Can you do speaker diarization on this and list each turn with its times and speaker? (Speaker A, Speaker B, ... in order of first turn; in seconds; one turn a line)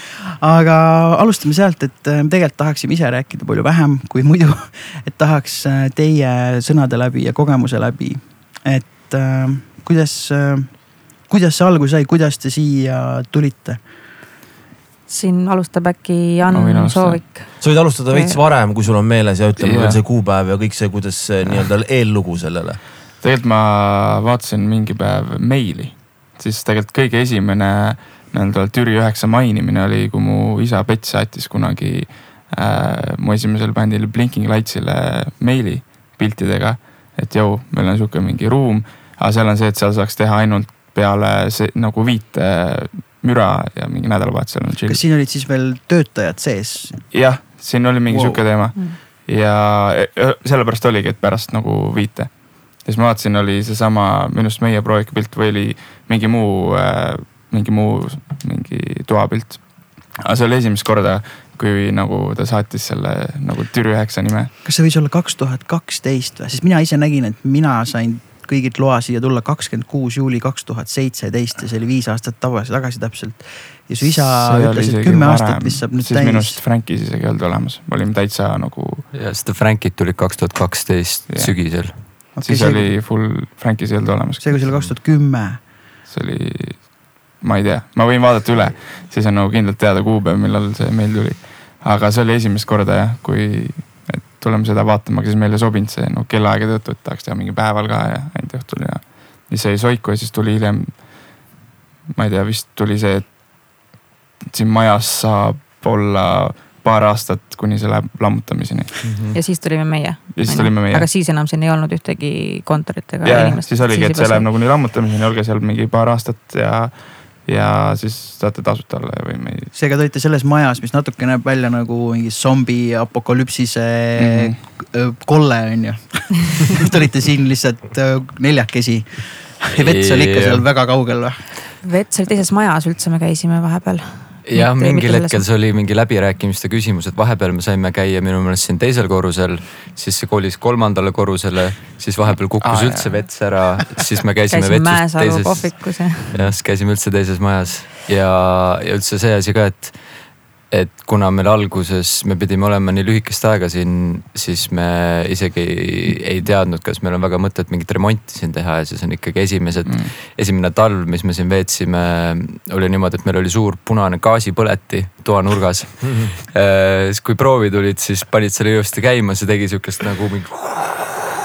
Speaker A: 0.4-13.9
Speaker B: 15.1-18.4
Speaker C: 16.4-17.2
Speaker D: 17.6-22.8
Speaker C: 19.6-20.0
Speaker C: 23.2-45.0
Speaker A: 44.8-47.5
Speaker C: 47.1-64.5
Speaker A: 48.1-48.5
Speaker A: 64.6-76.6
Speaker C: 74.0-79.1
Speaker E: 79.1-82.3
Speaker C: 81.3-84.7
Speaker A: 82.3-82.9
Speaker A: 84.4-85.7
Speaker E: 84.7-84.9
Speaker C: 86.0-101.5
Speaker C: 102.1-103.8
Speaker C: 104.4-109.1
Speaker E: 109.0-109.4
Speaker B: 109.3-114.5
Speaker C: 110.3-111.1
Speaker C: 113.2-119.7
Speaker A: 119.7-131.5
Speaker C: 124.2-124.5
Speaker E: 129.7-130.7
Speaker B: 131.8-135.4
Speaker E: 134.4-171.2
Speaker C: 142.6-144.0
Speaker B: 144.5-146.4
Speaker C: 159.8-160.1
Speaker D: 166.0-166.3